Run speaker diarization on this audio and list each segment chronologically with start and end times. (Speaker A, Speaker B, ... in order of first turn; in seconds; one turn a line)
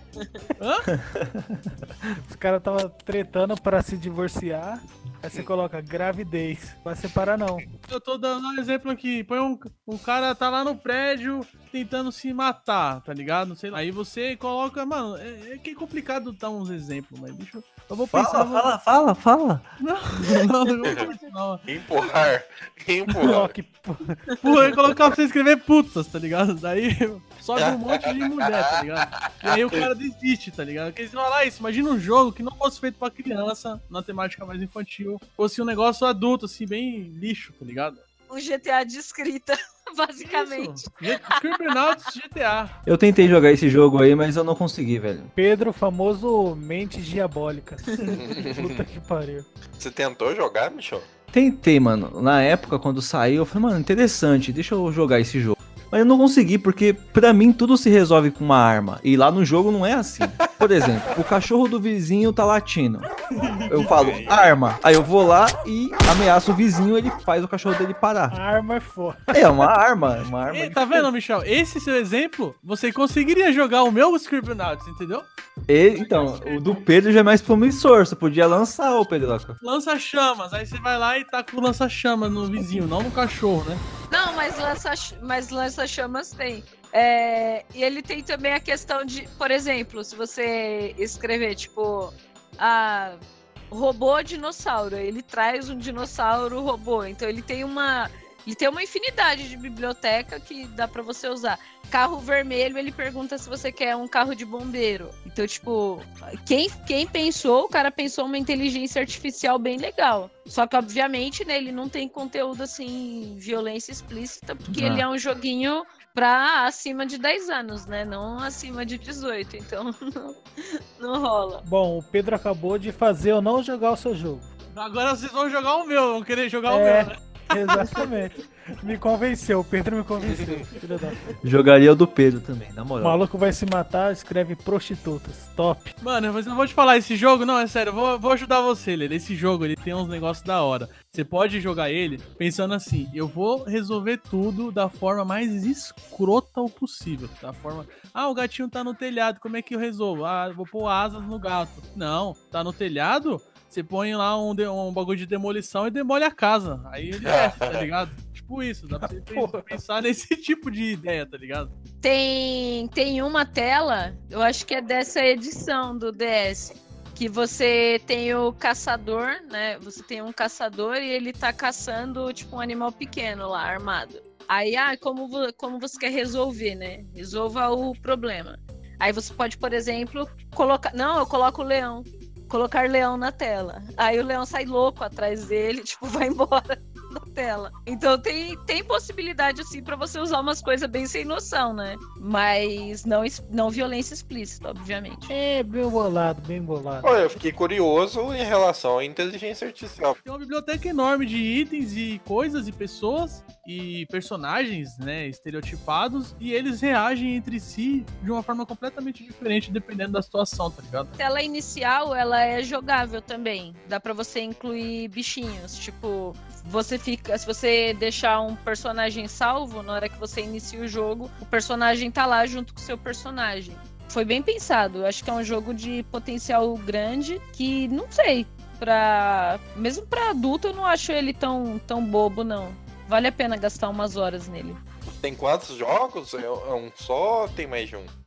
Speaker A: 0.6-0.9
Speaker B: 0.9-2.1
Speaker C: 2.2-7.7
Speaker A: 7.9-18.7
Speaker B: 18.1-20.4
Speaker A: 19.8-21.6
Speaker D: 21.7-23.5
Speaker C: 23.2-24.4
Speaker A: 24.4-38.0
Speaker D: 27.6-27.8
Speaker D: 29.1-29.8
Speaker E: 38.3-41.4
Speaker A: 40.2-42.8
Speaker B: 42.9-45.3
Speaker C: 45.3-49.5
Speaker D: 48.1-48.8
Speaker D: 49.8-51.1
Speaker B: 51.3-63.1
Speaker A: 63.4-64.2
Speaker B: 63.7-68.4
Speaker D: 64.0-64.4
Speaker C: 68.3-69.7
Speaker B: 69.3-70.8
Speaker A: 70.5-75.3
Speaker B: 75.7-79.5
Speaker A: 76.0-76.8
Speaker A: 79.6-83.8
Speaker E: 84.1-93.2
Speaker E: 93.7-121.6
Speaker B: 114.7-115.0
Speaker C: 121.6-124.5
Speaker A: 124.7-128.1
Speaker C: 126.7-131.3
Speaker D: 130.3-130.6
Speaker B: 131.4-133.2
Speaker C: 133.0-135.9
Speaker A: 136.0-161.7
Speaker D: 157.2-157.9
Speaker C: 159.0-159.8
Speaker E: 162.0-195.3
Speaker C: 195.3-197.1
Speaker D: 197.0-200.2
Speaker A: 200.2-211.1
Speaker E: 211.2-234.8
Speaker D: 235.1-238.1